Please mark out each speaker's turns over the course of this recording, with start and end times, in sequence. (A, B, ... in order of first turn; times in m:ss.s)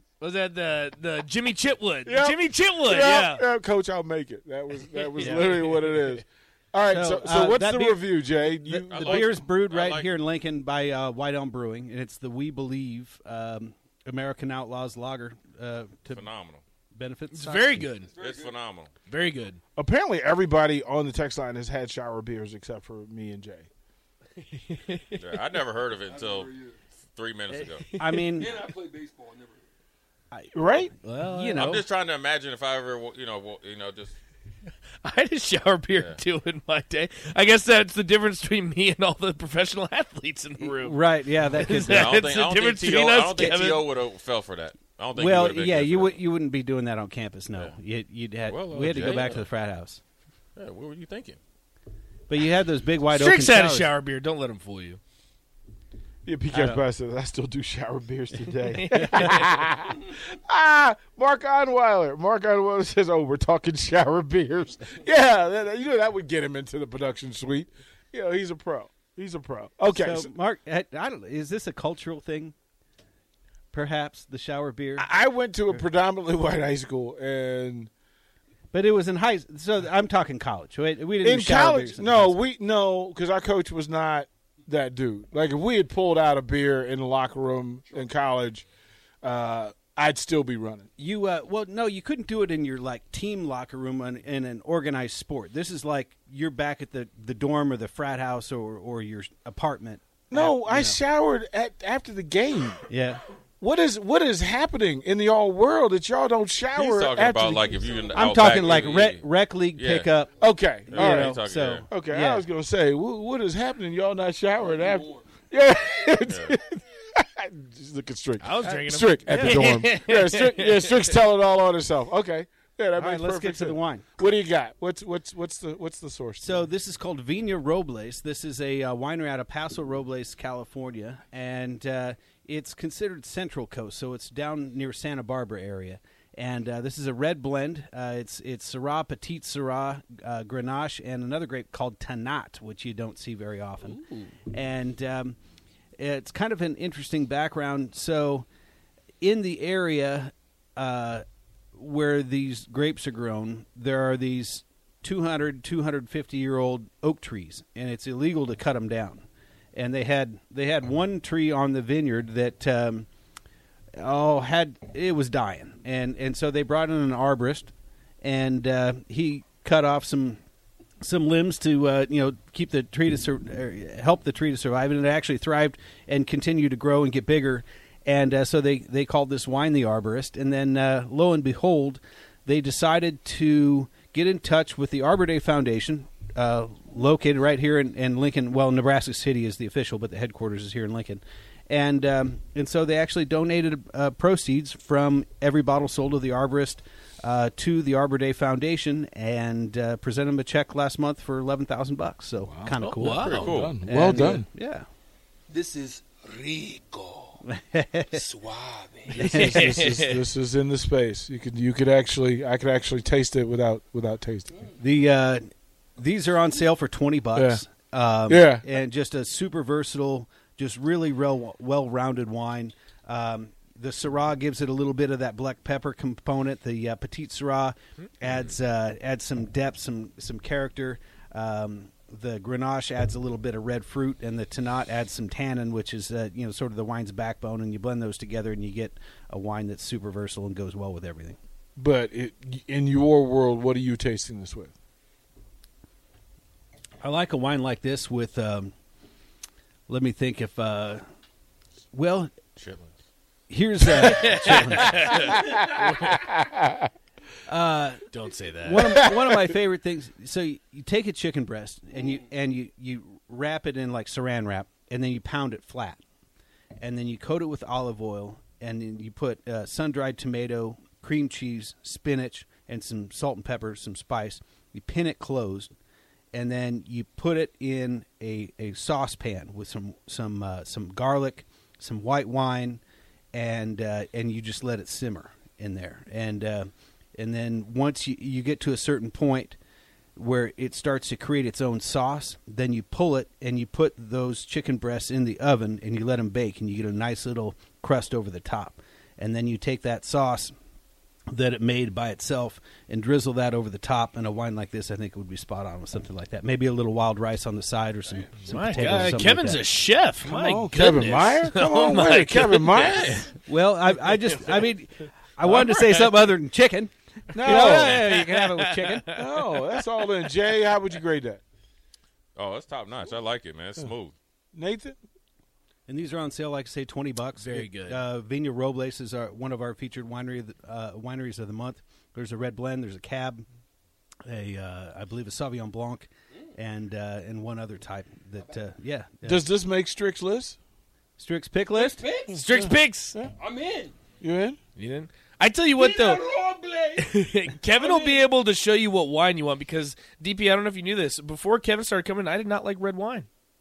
0:00.2-0:03.5 A
0:02.0-0:09.4 B
0:05.1-0:06.1 A
0:05.2-0:05.5 C
0:06.9-0:16.3 C
0:08.9-0:10.1 D
0:16.1-0:16.6 D
0:16.9-0:17.9 C
0:17.3-0:18.1 A
0:18.1-0:18.6 E
0:18.2-0:18.9 D
0:19.1-0:19.6 A
0:19.8-0:23.7 B
0:24.6-0:25.2 A
0:25.1-0:26.6 D
0:26.1-0:26.8 E
0:27.2-0:27.8 D
0:27.7-0:28.2 A
0:28.0-0:28.6 C
0:28.4-0:29.6 E
0:30.5-0:30.9 B
0:31.0-0:31.8 A
0:31.2-0:31.8 C
0:31.6-0:34.2 D
0:35.0-0:43.8 A
0:35.9-0:36.2 D
0:40.6-0:42.2 C
0:41.7-0:46.2 D
0:45.2-0:50.0 C
0:48.5-0:49.5 D
0:50.6-0:51.4 D
0:52.3-0:53.9 C
0:53.1-0:55.0 A
0:56.2-1:10.3 B
0:56.5-0:56.8 C
0:58.7-0:59.4 A
1:09.9-1:12.6 C
1:13.7-1:15.1 C
1:15.0-1:17.9 B
1:18.7-1:22.4 C
1:21.2-1:28.6 B
1:29.2-1:30.9 B
1:31.0-1:41.0 C
1:40.3-1:42.9 B
1:42.9-1:43.2 C
1:43.6-1:47.9 B
1:46.8-1:50.1 D
1:47.8-1:48.1 E
1:48.1-1:50.3 C
1:50.4-1:51.4 B
1:50.9-1:51.9 D
1:50.9-1:52.5 C
1:51.9-2:06.6 B
1:54.6-1:55.4 E
1:56.2-1:56.6 D
1:58.4-2:01.2 A
1:59.3-1:59.8 C
2:03.0-2:04.1 C
2:06.4-2:25.4 C
2:24.0-2:24.3 A
2:26.0-2:28.5 C
2:29.2-2:31.2 C
2:31.8-2:43.1 C
2:44.0-2:50.4 C
2:51.0-3:24.9 C
3:22.5-3:24.5 B
3:22.8-3:23.7 A
3:23.2-3:23.8 D
3:25.5-3:27.4 E
3:27.4-3:28.2 C
3:28.1-3:29.2 E
3:29.1-3:34.5 B
3:29.2-3:29.8 C
3:29.2-3:30.2 A
3:34.8-4:01.4 C
3:37.4-3:37.6 B
3:38.3-3:38.6 B
4:01.8-4:04.7 B
4:07.0-4:08.7 C
4:09.9-4:11.0 C
4:11.9-4:12.3 C
4:12.6-4:12.9 D
4:13.5-4:15.3 C
4:14.0-4:16.2 A
4:15.6-4:16.9 B
4:17.5-4:18.1 C
4:18.1-4:19.0 A
4:18.6-4:26.0 C
4:19.0-4:19.5 B
4:26.8-4:35.7 C
4:36.3-4:42.8 C
4:43.3-4:49.6 C
4:50.2-5:00.5 C
5:01.3-5:09.6 C
5:08.4-5:13.2 A
5:10.2-5:13.2 B
5:12.7-5:13.2 D
5:13.5-5:19.2 C
5:14.0-5:14.7 A
5:15.4-5:16.2 A
5:17.3-5:18.0 B
5:17.5-5:19.6 A
5:19.1-5:21.4 B
5:22.4-5:24.1 D
5:24.5-5:25.0 B
5:25.9-5:33.5 C
5:27.4-5:28.0 A
5:34.2-5:39.5 C
5:39.2-5:40.6 B
5:41.2-5:42.0 C
5:41.8-5:42.4 E
5:42.3-5:43.2 A
5:42.3-5:43.3 B
5:43.3-5:44.0 E
5:44.2-5:44.6 B
5:44.8-5:46.2 A
5:45.7-5:47.0 E
5:47.0-5:53.3 A
5:47.7-5:48.2 E